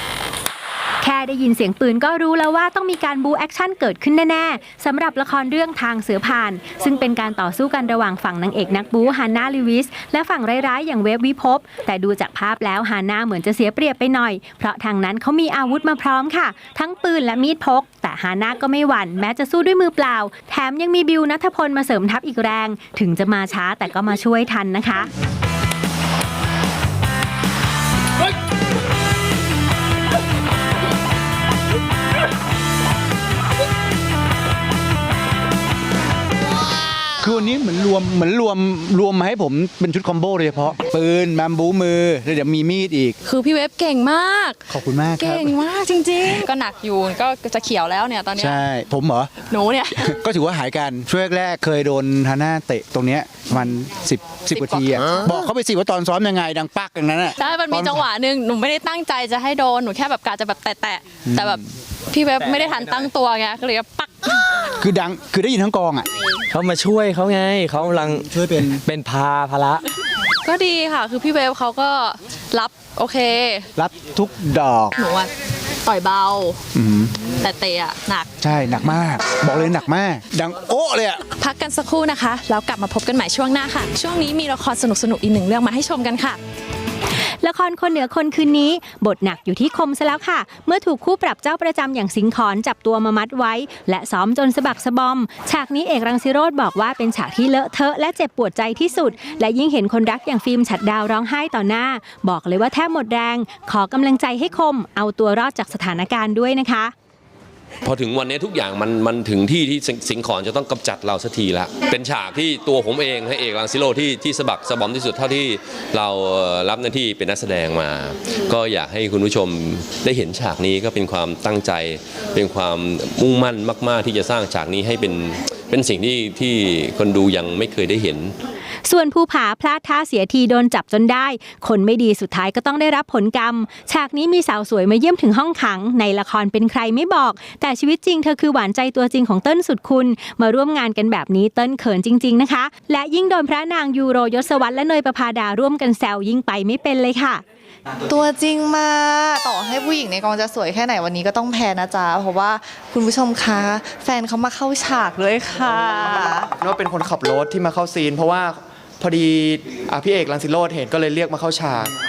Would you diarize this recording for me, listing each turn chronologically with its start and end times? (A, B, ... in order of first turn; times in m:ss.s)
0:01.0-0:25.1 A
0:37.2-0:43.2 B
0:43.2-0:48.6 C
0:44.7-0:45.6 B
0:48.4-0:49.3 B
0:49.5-0:50.2 C
0:50.0-0:58.0 B
0:54.5-0:54.8 C
0:57.4-1:04.4 C
1:04.7-1:06.1 B
1:06.5-1:09.8 D
1:08.2-1:08.8 B
1:10.4-1:13.7 C
1:13.8-1:15.0 B
1:15.0-1:15.3 C
1:15.8-1:16.6 C
1:16.7-1:17.1 B
1:17.2-1:18.3 C
1:18.4-1:21.2 B
1:21.4-1:26.4 C
1:27.4-1:46.9 A
1:47.8-2:08.4 E
2:08.9-2:27.4 A
2:28.1-2:36.5 F
2:36.6-2:41.9 G